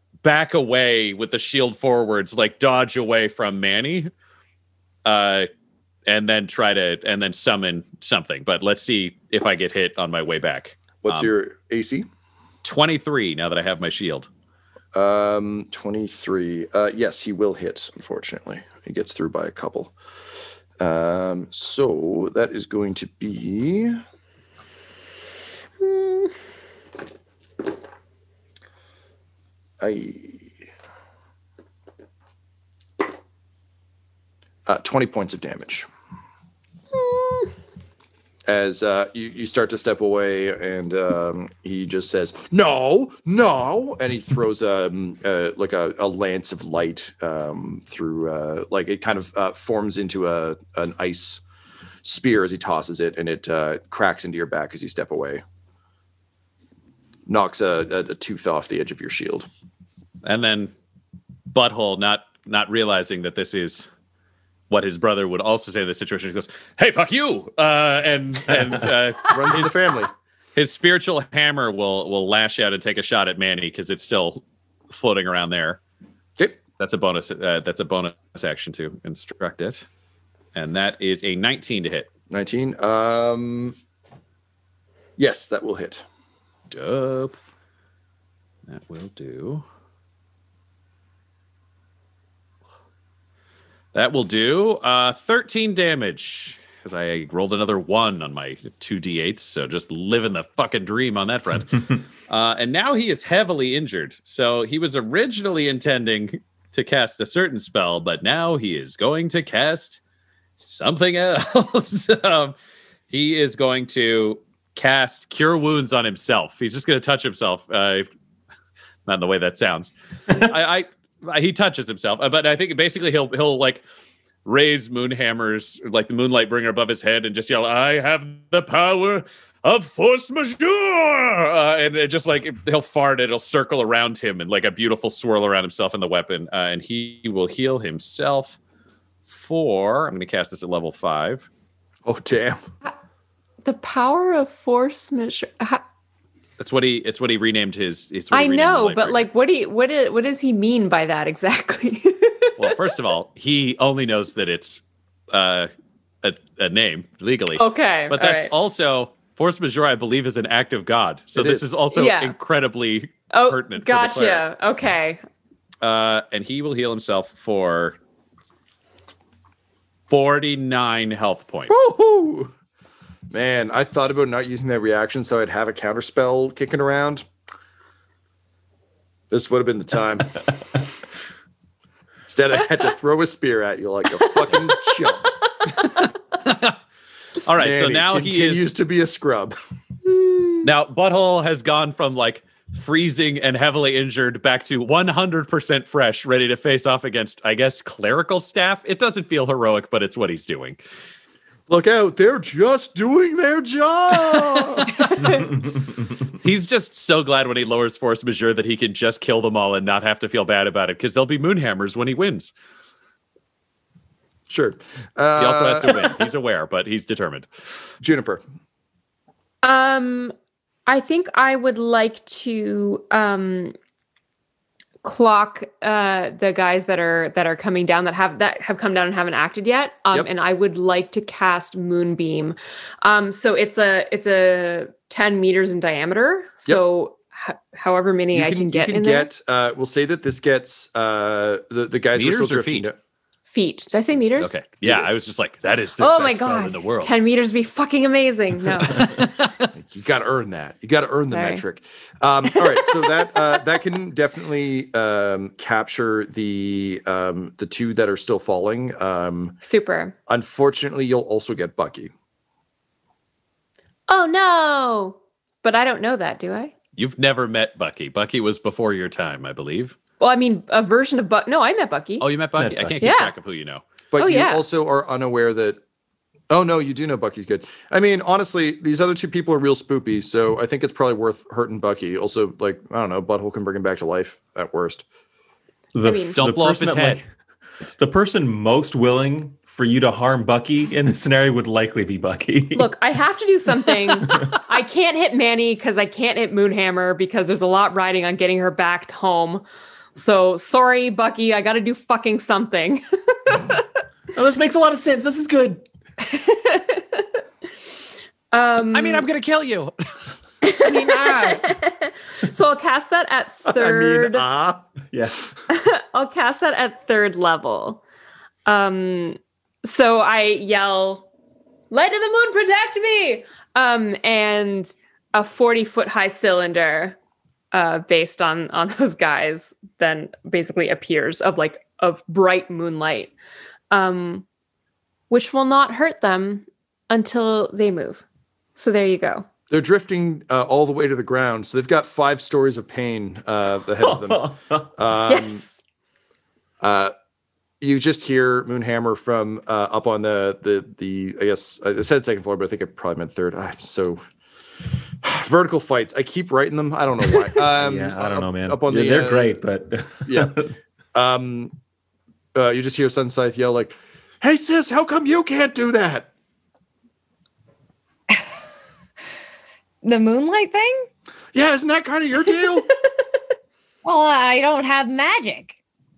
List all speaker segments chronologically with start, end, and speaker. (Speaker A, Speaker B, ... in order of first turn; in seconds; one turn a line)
Speaker A: 0.2-4.1
Speaker A: 5.0-5.5
Speaker A: 6.1-11.3
Speaker B: 11.0-12.1
Speaker A: 12.6-14.3
Speaker B: 14.9-19.9
Speaker B: 20.8-24.0
Speaker C: 25.8-26.3
Speaker B: 29.8-30.5
Speaker B: 34.7-35.9
Speaker C: 37.0-37.5
Speaker B: 38.5-51.4
Speaker B: 52.0-55.4
Speaker B: 57.3-59.5
Speaker A: 60.2-60.7
Speaker A: 61.5-63.9
Speaker A: 64.7-69.8
Speaker B: 69.3-70.1
Speaker A: 70.6-75.8
Speaker A: 76.8-79.9
Speaker A: 80.5-82.1
Speaker B: 82.3-83.8
Speaker B: 85.2-86.1
Speaker A: 86.7-87.4
Speaker A: 88.7-89.6
Speaker A: 93.9-110.0
Speaker A: 110.6-112.5
Speaker A: 113.1-118.1
Speaker A: 119.1-123.8
Speaker A: 124.5-138.6
Speaker A: 139.3-141.5
Speaker B: 142.1-142.7
Speaker C: 143.6-145.8
Speaker A: 146.6-149.2
Speaker C: 148.3-152.8
Speaker A: 152.6-155.7
Speaker A: 156.2-164.5
Speaker C: 157.6-158.5
Speaker B: 161.3-161.7
Speaker C: 161.9-162.4
Speaker C: 163.3-165.2
Speaker A: 165.8-168.0
Speaker A: 170.1-171.7
Speaker B: 171.7-172.5
Speaker B: 173.3-177.3
Speaker B: 179.3-180.4
Speaker B: 182.2-185.3
Speaker A: 186.4-186.8
Speaker A: 187.5-188.7
Speaker B: 187.6-189.6
Speaker C: 190.1-190.7
Speaker A: 190.6-200.8
Speaker B: 201.7-205.0
Speaker A: 206.4-212.5
Speaker B: 214.5-216.2
Speaker A: 215.4-217.5
Speaker B: 218.0-218.4
Speaker C: 219.6-220.3
Speaker C: 220.9-223.8
Speaker C: 225.0-239.3
Speaker B: 238.3-243.0
Speaker A: 242.2-242.9
Speaker C: 243.5-244.6
Speaker A: 244.4-247.1
Speaker C: 246.0-249.3
Speaker B: 249.7-259.6
Speaker C: 251.3-251.6
Speaker C: 259.6-260.1
Speaker B: 260.3-262.1
Speaker C: 264.1-266.7
Speaker A: 267.0-270.0
Speaker C: 270.2-272.3
Speaker A: 272.2-273.8
Speaker D: 272.6-273.0
Speaker C: 273.0-273.3
Speaker B: 274.1-275.8
Speaker C: 274.2-274.6
Speaker B: 276.5-285.1
Speaker D: 285.9-287.2
Speaker C: 286.0-286.4
Speaker A: 286.4-287.2
Speaker D: 288.0-292.9
Speaker C: 292.7-299.6
Speaker D: 293.8-294.6
Speaker C: 300.1-303.9
Speaker D: 304.3-305.8
Speaker C: 306.2-307.2
Speaker C: 308.5-309.3
Speaker A: 308.9-309.9
Speaker C: 310.6-314.4
Speaker A: 310.8-311.6
Speaker B: 313.7-314.9
Speaker D: 315.1-315.5
Speaker C: 315.7-318.0
Speaker C: 318.7-321.3
Speaker C: 321.9-327.2
Speaker C: 327.7-333.3
Speaker C: 333.9-334.4
Speaker C: 335.3-338.2
Speaker C: 338.8-339.5
Speaker B: 339.7-345.6
Speaker D: 344.0-344.9
Speaker C: 345.3-345.7
Speaker B: 346.8-347.1
Speaker B: 347.8-354.2
Speaker B: 355.2-359.6
Speaker D: 357.7-360.7
Speaker B: 360.2-360.6
Speaker B: 361.1-361.8
Speaker B: 362.5-366.3
Speaker E: 370.0-371.1
Speaker B: 371.5-372.9
Speaker E: 374.1-375.8